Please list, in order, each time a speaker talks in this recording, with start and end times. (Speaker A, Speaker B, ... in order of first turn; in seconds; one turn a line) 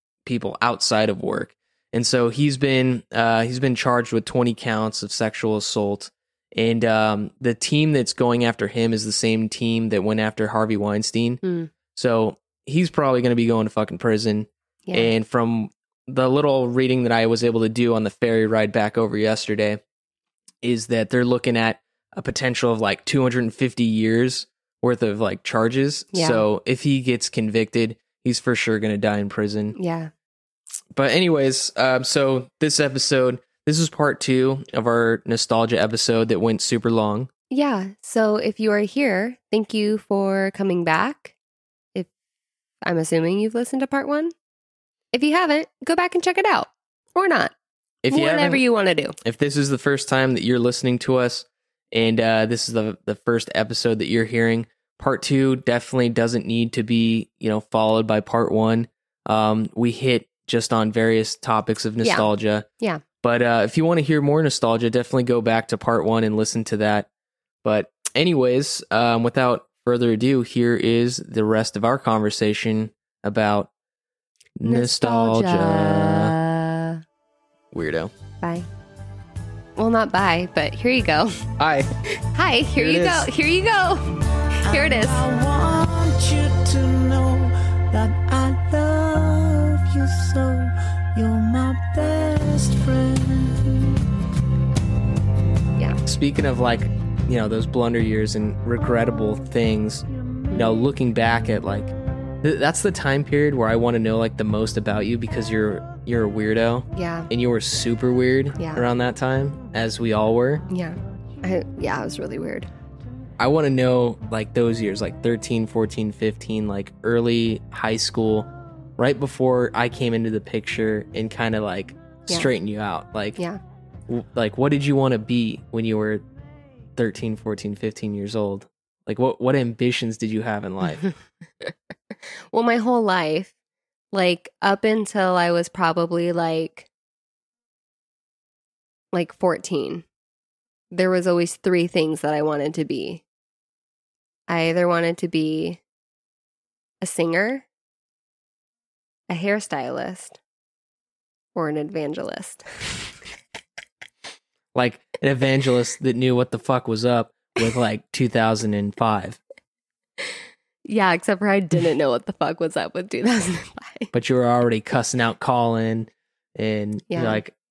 Speaker A: 0.2-11.4
Speaker B: 11.4-11.7
Speaker A: 11.9-19.8
Speaker B: 14.9-15.1
Speaker A: 20.6-29.8
Speaker B: 26.1-26.4
Speaker B: 29.7-30.1
Speaker A: 30.9-37.3
Speaker B: 37.5-41.3
Speaker B: 42.8-44.3
Speaker B: 45.1-47.5
Speaker A: 48.0-48.6
Speaker B: 48.1-49.2
Speaker A: 49.2-62.7
Speaker B: 62.0-62.3
Speaker A: 63.2-67.1
Speaker A: 67.6-73.7
Speaker A: 74.6-76.3
Speaker B: 74.7-77.0
Speaker A: 77.7-78.1
Speaker B: 78.4-78.7
Speaker B: 79.8-81.4
Speaker A: 81.6-81.9
Speaker B: 82.3-84.1
Speaker A: 82.8-83.3
Speaker C: 84.6-94.0
Speaker B: 84.7-85.2
Speaker A: 96.1-100.0
Speaker A: 100.5-110.7
Speaker B: 107.0-107.3
Speaker B: 108.6-108.9
Speaker B: 110.7-112.7
Speaker A: 113.4-123.4
Speaker A: 124.1-126.2
Speaker A: 127.0-131.0
Speaker B: 132.5-133.5
Speaker B: 134.1-136.9
Speaker B: 139.1-140.0
Speaker B: 140.9-143.2
Speaker B: 144.5-145.8
Speaker B: 147.0-147.7
Speaker B: 149.3-150.4
Speaker B: 151.6-152.6
Speaker A: 154.7-159.4
Speaker B: 160.9-164.1
Speaker A: 164.1-167.5
Speaker B: 167.1-167.4